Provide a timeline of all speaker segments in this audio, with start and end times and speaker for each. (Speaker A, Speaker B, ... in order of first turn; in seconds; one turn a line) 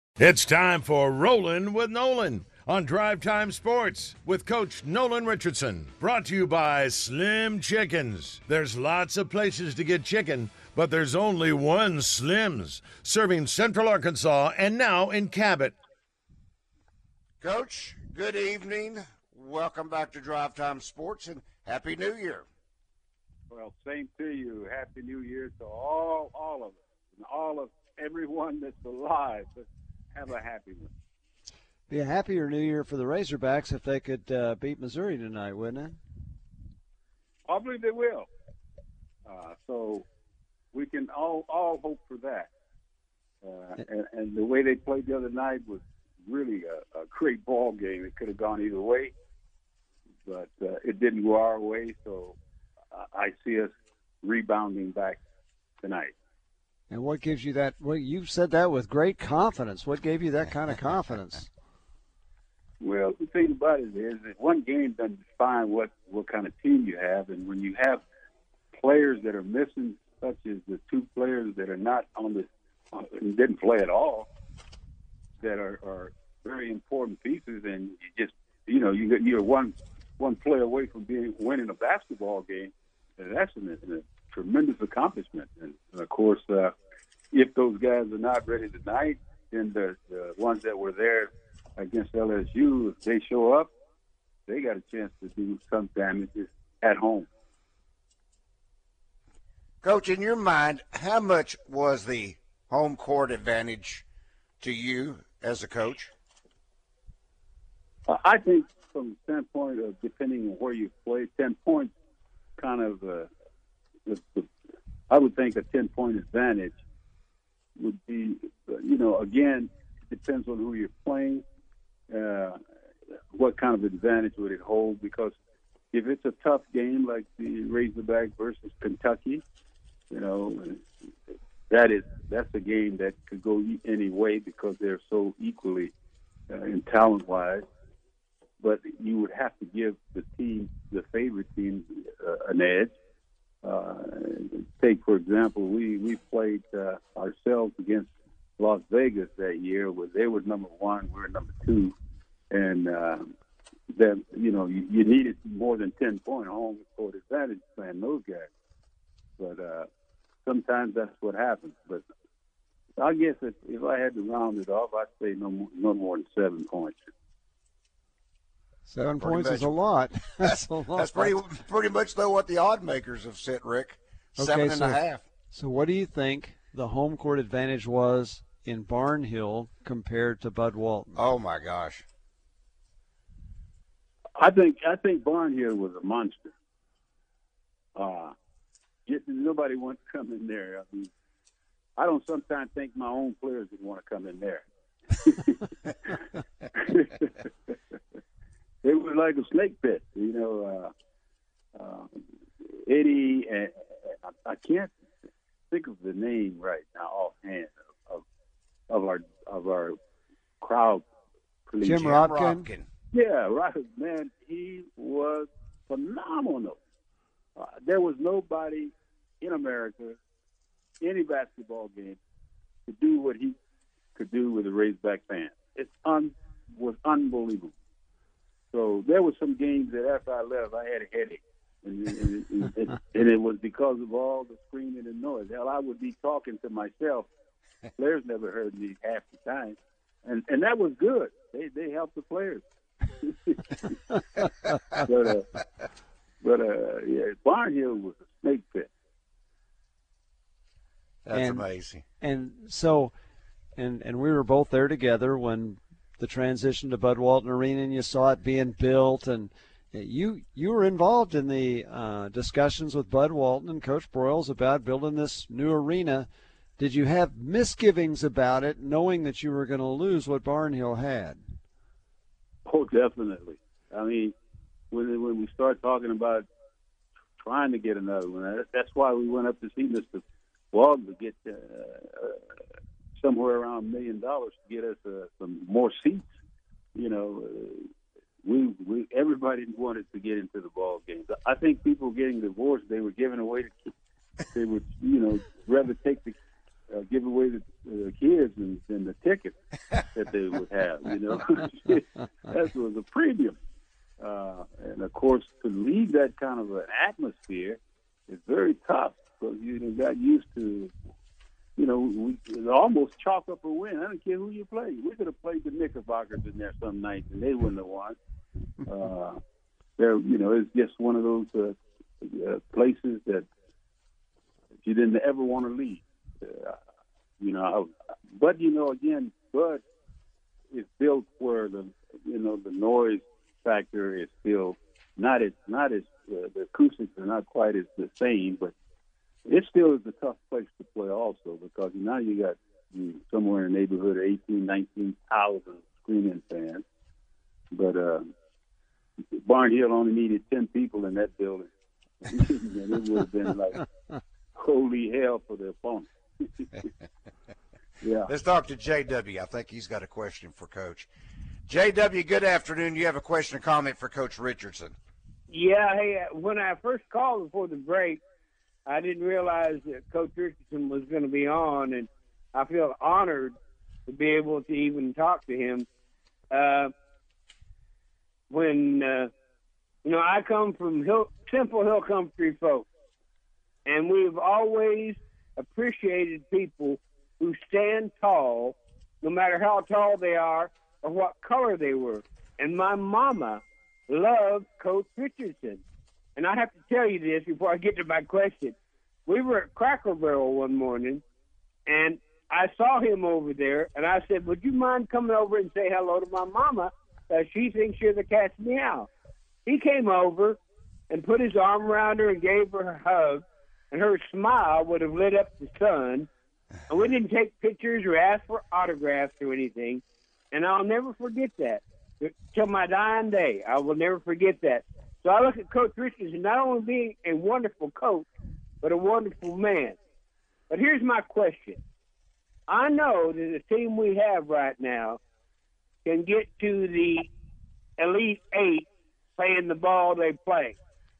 Speaker A: 0.2-15.7
Speaker B: 17.4-22.4
Speaker C: 23.5-30.9
Speaker D: 31.9-36.0
Speaker C: 37.5-38.3
Speaker C: 39.2-40.0
Speaker C: 40.7-42.5
Speaker C: 43.4-49.1
Speaker C: 50.2-52.4
Speaker C: 52.9-53.7
Speaker C: 54.2-55.2
Speaker C: 55.8-56.1
Speaker D: 56.9-61.5
Speaker C: 62.8-68.0
Speaker C: 68.7-74.3
Speaker C: 75.4-86.7
Speaker C: 87.3-93.7
Speaker C: 94.5-97.3
Speaker B: 99.8-104.0
Speaker B: 104.6-106.1
Speaker C: 108.1-111.9
Speaker C: 112.6-113.3
Speaker C: 114.1-114.5
Speaker C: 115.1-116.8
Speaker C: 117.8-121.4
Speaker C: 122.1-122.6
Speaker C: 123.3-125.3
Speaker C: 125.9-129.4
Speaker C: 130.1-130.8
Speaker C: 131.7-135.9
Speaker C: 136.5-137.6
Speaker C: 138.6-142.9
Speaker C: 143.6-148.1
Speaker C: 148.6-151.9
Speaker C: 152.5-153.3
Speaker C: 153.9-158.5
Speaker C: 159.4-159.9
Speaker C: 160.4-162.0
Speaker C: 163.0-167.1
Speaker D: 168.9-171.3
Speaker B: 169.2-169.8
Speaker B: 170.3-175.2
Speaker D: 174.4-181.2
Speaker B: 181.1-182.0
Speaker C: 184.3-186.5
Speaker C: 187.9-188.3
Speaker C: 189.1-191.1
Speaker C: 192.0-196.2
Speaker C: 196.7-197.8
Speaker C: 198.8-200.9
Speaker C: 201.7-204.9
Speaker C: 205.7-208.2
Speaker C: 208.9-209.9
Speaker C: 210.6-211.0
Speaker C: 211.7-212.1
Speaker D: 211.8-212.7
Speaker B: 211.8-212.9
Speaker C: 213.1-216.8
Speaker C: 217.6-220.2
Speaker C: 221.0-222.2
Speaker C: 222.9-223.6
Speaker C: 224.1-227.7
Speaker C: 228.7-237.3
Speaker C: 238.0-242.6
Speaker C: 243.2-244.0
Speaker C: 244.9-245.5
Speaker C: 246.4-248.9
Speaker B: 251.2-252.0
Speaker D: 251.3-251.6
Speaker D: 252.2-253.1
Speaker D: 253.8-271.4
Speaker C: 272.6-274.3
Speaker C: 274.9-276.4
Speaker C: 277.4-282.4
Speaker C: 283.2-286.3
Speaker C: 286.9-287.9
Speaker C: 288.4-293.9
Speaker C: 294.5-296.4
Speaker C: 296.9-303.6
Speaker C: 304.2-310.9
Speaker C: 311.8-318.2
Speaker C: 318.9-319.4
Speaker C: 320.0-323.5
Speaker C: 324.8-326.8
Speaker C: 327.4-329.8
Speaker C: 330.7-338.7
Speaker C: 339.4-346.8
Speaker C: 347.7-348.3
Speaker C: 349.3-351.7
Speaker C: 352.2-353.9
Speaker C: 354.5-356.7
Speaker C: 358.0-358.3
Speaker B: 358.3-361.1
Speaker B: 361.7-364.9
Speaker E: 365.5-368.2
Speaker E: 368.9-373.6
Speaker E: 374.1-375.9
Speaker E: 376.5-376.9
Speaker E: 378.5-379.3
Speaker E: 380.0-382.9
Speaker E: 383.9-395.8
Speaker E: 396.4-398.7
Speaker E: 399.3-401.2
Speaker E: 401.9-409.1
Speaker E: 409.6-416.3
Speaker E: 416.9-428.3
Speaker E: 428.8-430.0
Speaker E: 430.7-431.8
Speaker E: 432.7-435.2
Speaker E: 436.0-437.3
Speaker E: 438.0-440.8